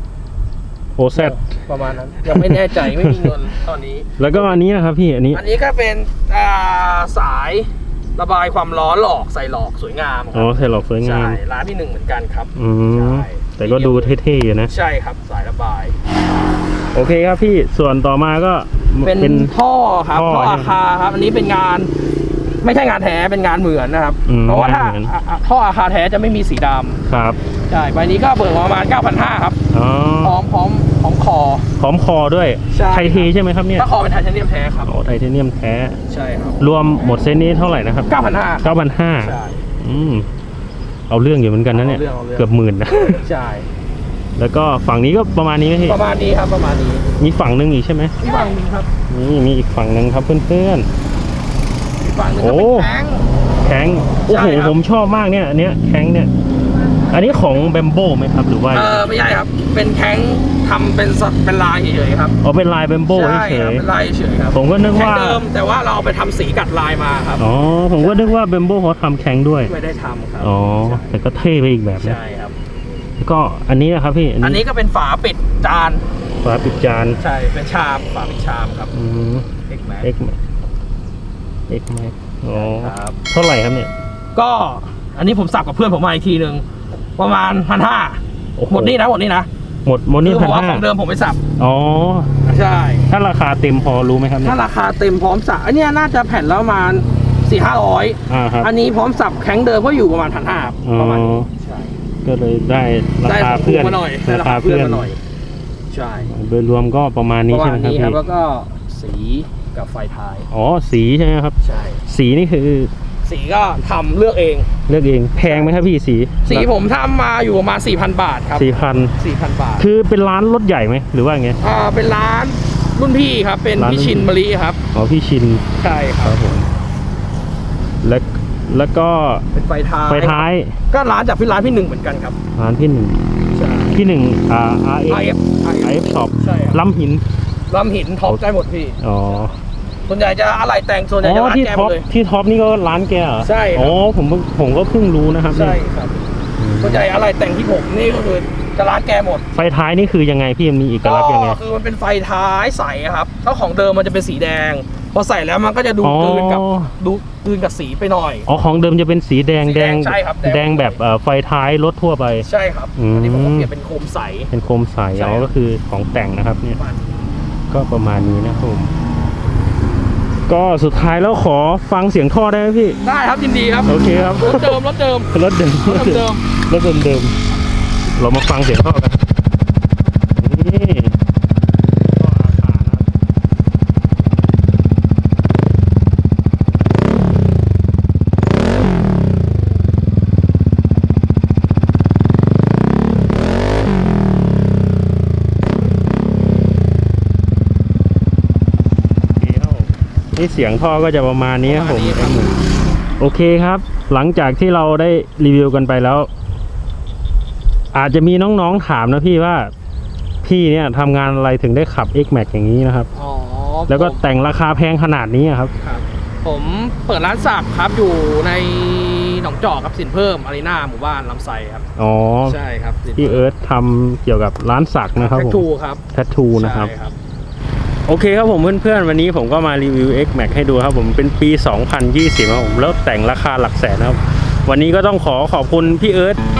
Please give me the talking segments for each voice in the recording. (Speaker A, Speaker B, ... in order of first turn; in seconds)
Speaker A: 0.9-1.4, 2.2-3.3, 4.2-5.4, 10.3-11.4, 12.6-14.7, 16.9-19.5, 20.1-20.7, 24.2-25.1, 27.1-27.4, 29.7-30.4, 31.8-33.9, 34.8-36.0, 36.6-40.3, 41.1-43.2, 44.4-46.0, 47.2-48.1, 49.1-50.9, 52.4-52.9, 53.6-56.3, 57.1-59.1, 62.4-63.9, 64.5-65.4, 67.4-69.7, 70.4-72.2, 73.2-74.6, 76.4-77.2, 78.9-79.5, 80.0-80.3, 81.7-83.9, 88.6-89.0, 89.8-90.8, 91.6-92.3, 93.1-94.6, 98.3-98.7, 100.8-101.5, 102.2-105.1, 106.3-108.2, 110.5-111.5, 112.1-112.9, 114.9-116.7, 118.5-119.1, 119.8-121.6, 123.8-124.3, 124.9-125.6, 126.2-126.7, 128.0-129.4, 130.1-130.8, 132.6-133.2, 133.9-137.2, 139.0-139.5, 141.2-145.8, 146.6-147.0, 149.5-151.6, 156.0-156.9, 158.5-163.7, 164.5-166.8, 167.7-168.9, 170.5-173.0, 173.8-174.8, 175.3-177.3, 178.1-179.2, 180.3-181.2, 182.2-183.0, 199.3-202.6, 203.2-206.3, 207.9-209.7, 210.4-213.1, 213.9-215.7, 222.0-222.6, 223.2-226.9, 228.1-236.4
Speaker B: 1.1-4.6, 5.3-14.2, 14.7-16.0, 19.0-21.9, 22.6-27.0, 27.7-29.6, 30.2-31.6, 32.7-34.9, 36.1-36.6, 38.1-39.6, 41.7-42.5, 43.2-43.7, 45.8-47.1, 48.2-48.9, 52.0-53.2, 54.2-54.8, 58.7-62.4, 63.1-67.5, 68.0-68.3, 69.7-71.0, 72.0-72.5, 74.4-76.0, 77.2-78.9, 79.7-80.1, 82.5-83.2, 84.3-86.6, 87.2-89.5, 90.2-91.4, 92.4-93.0, 94.4-102.0, 103.2-105.2, 105.9-106.3, 107.5-110.5, 111.6-112.0, 113.2-114.7, 115.4-115.8, 116.4-119.9, 121.6-124.8, 125.8-126.4, 129.5-132.3, 133.5-134.0, 135.1-136.8, 137.7-139.4, 140.1-142.1, 143.4-144.0, 145.5-149.5, 151.0-158.5, 159.6-161.0, 162.4-164.5, 165.1-165.5, 166.8-167.3, 173.0-175.3, 175.8-176.4, 201.6-202.7, 213.1-214.2, 215.8-221.8, 222.4-223.5, 225.2-227.2